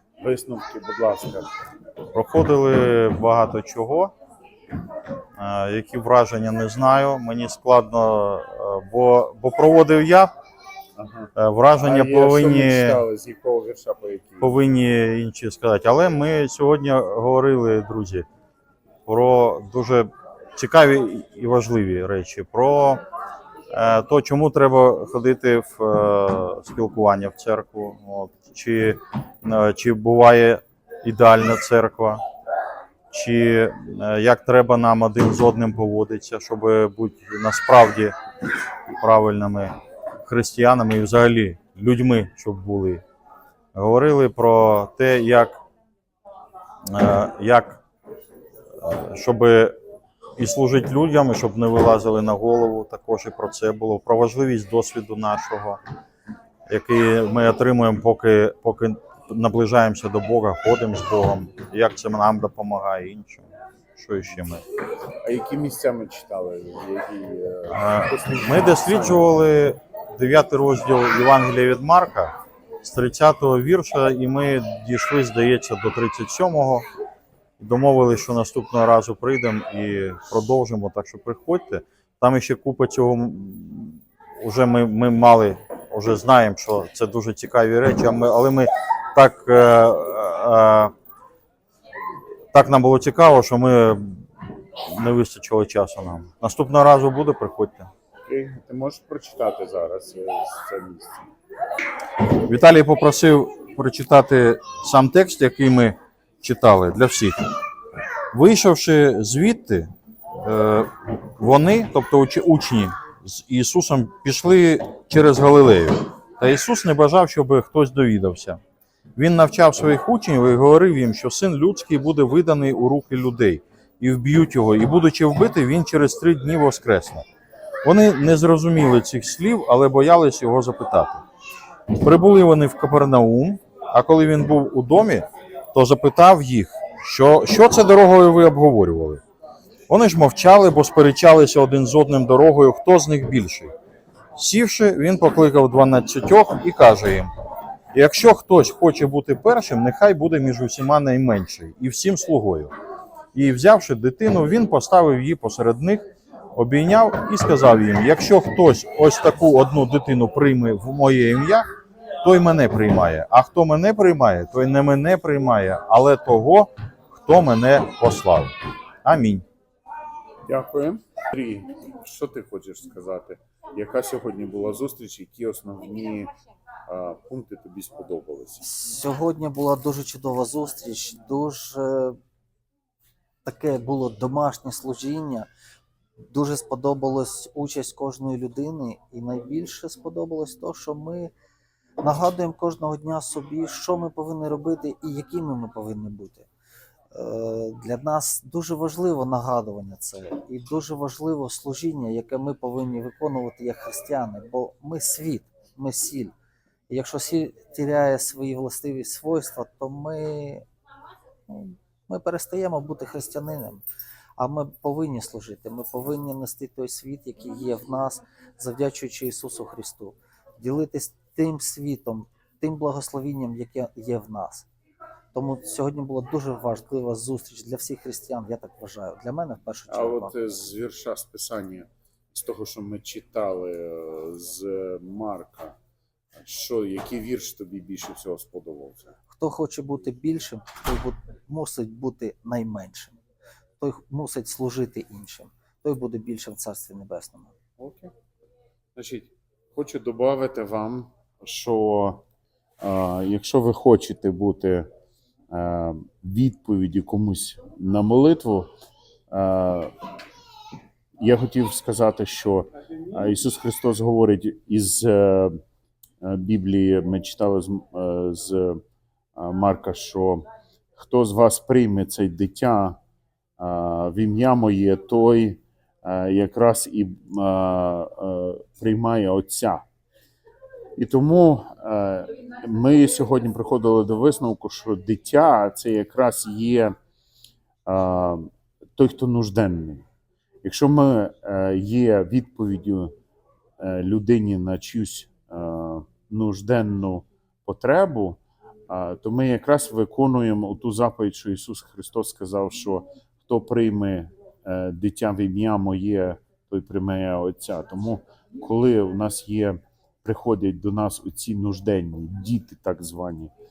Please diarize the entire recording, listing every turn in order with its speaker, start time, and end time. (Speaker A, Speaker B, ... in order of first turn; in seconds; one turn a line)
Speaker A: 0.2-1.5
Speaker B: 2.1-4.1
Speaker B: 5.4-10.3
Speaker A: 10.9-14.6
Speaker B: 11.3-13.0
Speaker B: 14.4-18.2
Speaker B: 19.1-23.0
Speaker B: 23.7-32.2
Speaker B: 33.1-38.1
Speaker B: 39.0-43.0
Speaker B: 43.7-45.6
Speaker B: 46.9-47.8
Speaker B: 48.8-49.7
Speaker B: 50.4-55.8
Speaker B: 56.7-64.6
Speaker A: 65.2-69.3
Speaker B: 67.7-76.8
Speaker B: 77.6-90.9
Speaker B: 92.5-94.2
Speaker B: 94.9-97.9
Speaker A: 98.3-101.3
Speaker B: 102.2-107.4
Speaker B: 108.3-118.6
Speaker B: 119.2-127.2
Speaker B: 127.8-131.2
Speaker B: 132.0-139.2
Speaker B: 139.9-143.7
Speaker B: 144.3-147.3
Speaker B: 147.9-152.7
Speaker B: 153.3-161.7
Speaker B: 162.2-168.5
Speaker B: 169.0-169.4
Speaker A: 170.5-176.3
Speaker A: 176.9-178.7
Speaker C: 178.6-182.2
Speaker C: 183.4-185.5
Speaker C: 186.2-191.3
Speaker C: 192.0-196.5
Speaker C: 197.1-206.3
Speaker C: 206.9-210.6
Speaker C: 211.5-213.8
Speaker C: 214.4-224.7
Speaker C: 225.3-230.4
Speaker A: 229.9-235.8
Speaker A: 236.3-239.1
Speaker C: 239.3-243.2
Speaker C: 243.8-247.5
Speaker A: 247.8-248.1
Speaker A: 248.9-252.2
Speaker A: 252.8-254.9
Speaker A: 255.5-258.7
Speaker A: 259.3-259.9
Speaker A: 261.2-265.6
Speaker A: 266.2-268.8
Speaker A: 269.4-273.0
Speaker A: 273.6-279.8
Speaker A: 280.9-286.9
Speaker A: 287.9-290.0
Speaker A: 290.6-293.1
Speaker A: 293.8-313.5